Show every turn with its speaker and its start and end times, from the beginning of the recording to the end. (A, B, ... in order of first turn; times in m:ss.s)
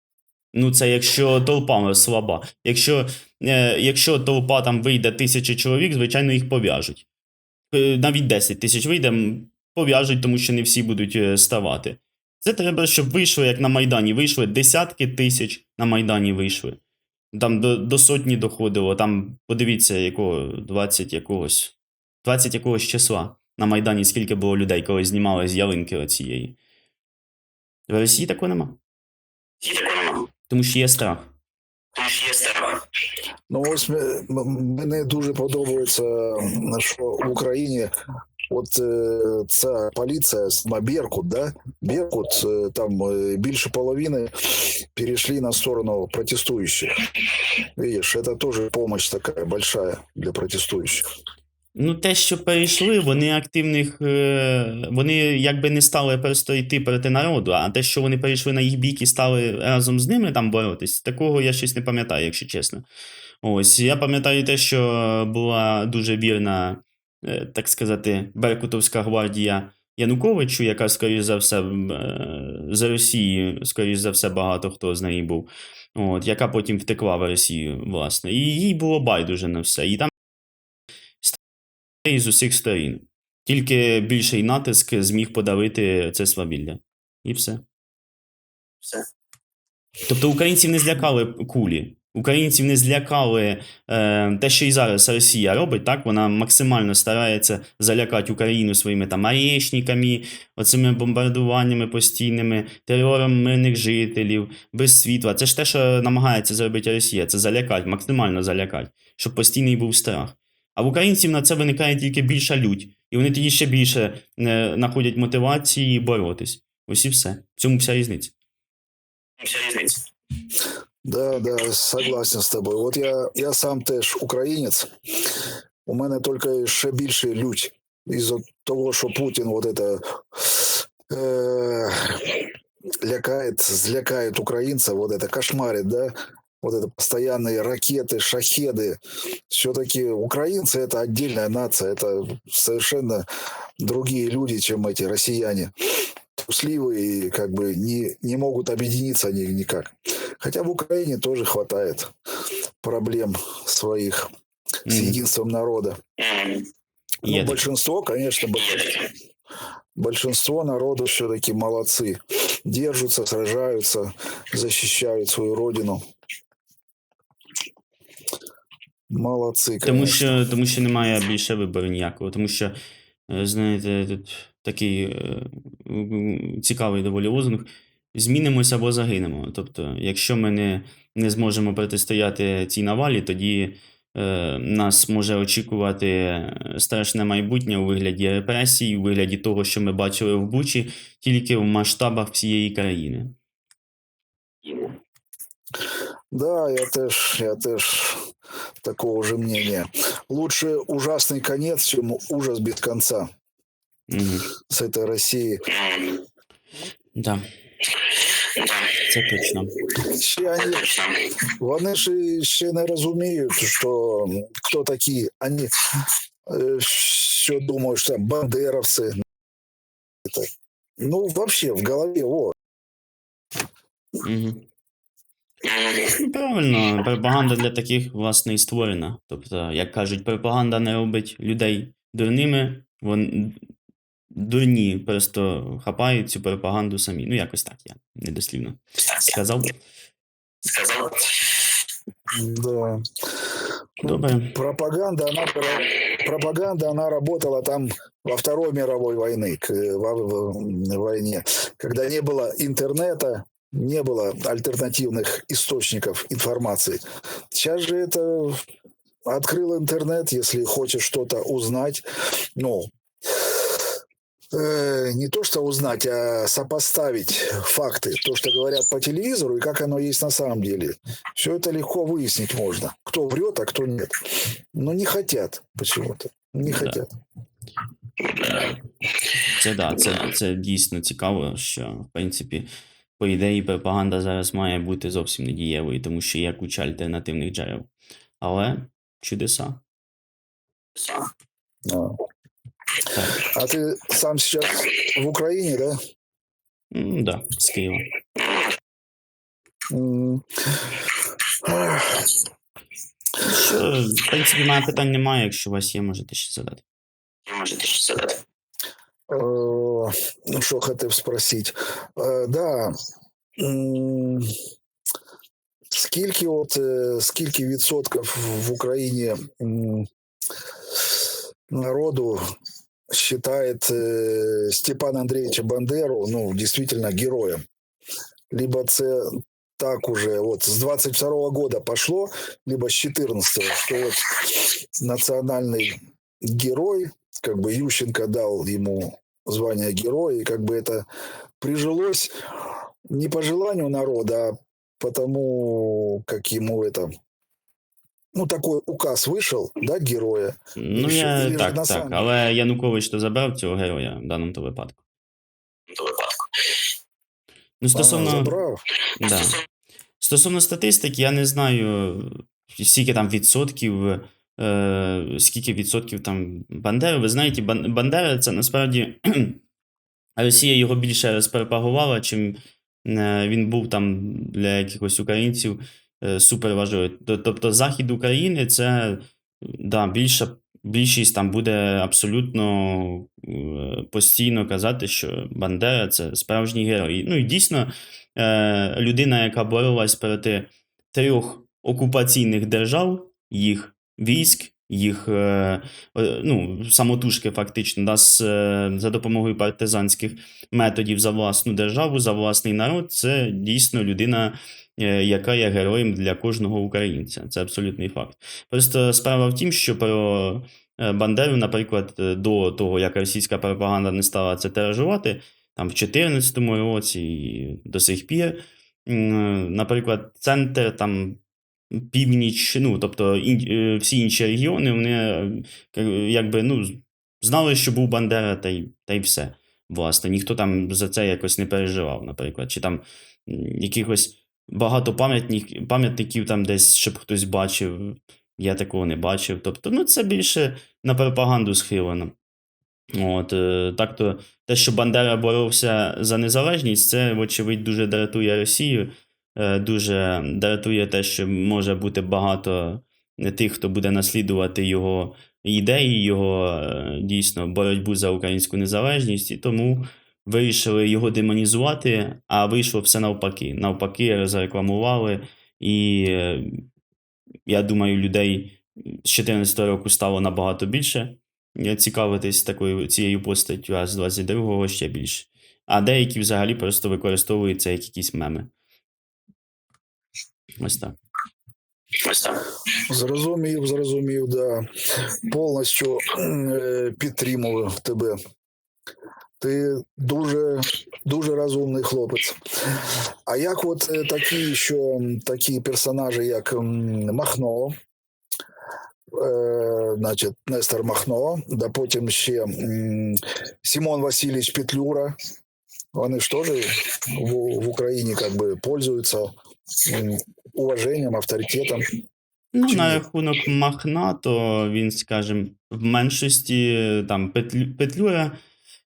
0:00.5-0:07.0 A
0:07.7-0:16.8 A
0:17.3-0:26.6 A
0:27.9-0:28.8 A
0:29.6-0:30.3 B
0:30.5-0:31.3 A
0:31.9-0:32.8 B
0:33.5-0:37.9 C
0:38.5-0:46.9 C
0:47.8-0:51.1 C
0:51.8-1:02.8 A
1:03.4-1:20.1 A
1:22.0-1:27.6 A
1:30.1-1:58.3 A
1:59.4-1:59.9 A
1:59.5-1:59.8 B
2:01.0-2:04.9 C
2:05.9-2:12.5 C
2:13.0-2:23.2 C
2:23.8-2:25.7 C
2:26.3-2:32.1 C
2:32.8-2:34.3 C
2:34.9-2:35.2 A
2:34.9-2:36.0 C
2:36.2-2:36.6 B
2:37.2-2:37.6 A
2:37.2-2:39.1 C
2:40.0-2:46.0 C
2:49.1-2:50.3 C
2:49.8-2:52.8 A
2:53.3-3:13.4 A
3:16.3-3:18.2 C
3:18.8-3:23.3 C
3:24.1-3:24.5 A
3:24.7-3:25.6 C
3:27.2-3:27.4 A
3:28.9-3:29.8 A
3:30.0-3:35.7 C
3:36.5-3:39.1 C
3:41.0-3:42.5 C
3:44.2-3:44.7 A
3:45.8-3:53.6 A
3:54.3-3:59.8 A
4:00.8-4:01.1 A
4:02.3-4:03.0 C
4:04.0-4:04.5 A
4:04.0-4:18.6 C
4:19.3-4:22.9 C
4:24.5-4:34.1 C
4:34.7-4:37.1 C
4:36.6-4:37.0 A
4:39.4-4:47.9 A
4:48.4-4:49.8 A
4:51.9-4:52.2 C
4:53.1-4:53.4 A
4:53.4-4:56.0 C
4:56.9-4:58.1 A
4:59.9-5:01.0 C
5:01.6-5:02.4 C
5:03.4-5:06.8 A
5:07.5-5:08.2 A
5:07.6-5:08.2 B
5:09.3-5:12.9 C
5:13.6-5:14.5 C
5:15.9-5:20.1 C
5:20.9-5:22.4 C
5:23.1-5:27.6 C
5:28.5-5:41.0 C
5:41.6-5:42.3 C
5:43.1-5:47.1 C
5:48.4-5:52.3 C
5:50.8-5:55.0 A
5:57.8-5:58.5 A
5:57.9-5:58.8 C
5:59.2-5:59.6 A
6:00.2-6:09.6 A
6:10.4-7:01.4 A
7:01.9-7:22.3 A
7:23.1-7:46.9 A
7:47.7-7:58.7 A
8:00.8-8:01.2 A
8:03.1-8:08.4 C
8:09.6-8:17.9 C
8:19.3-8:25.4 C
8:26.1-8:29.5 C
8:30.1-8:32.0 C
8:32.7-8:38.6 A
8:32.9-8:33.2 C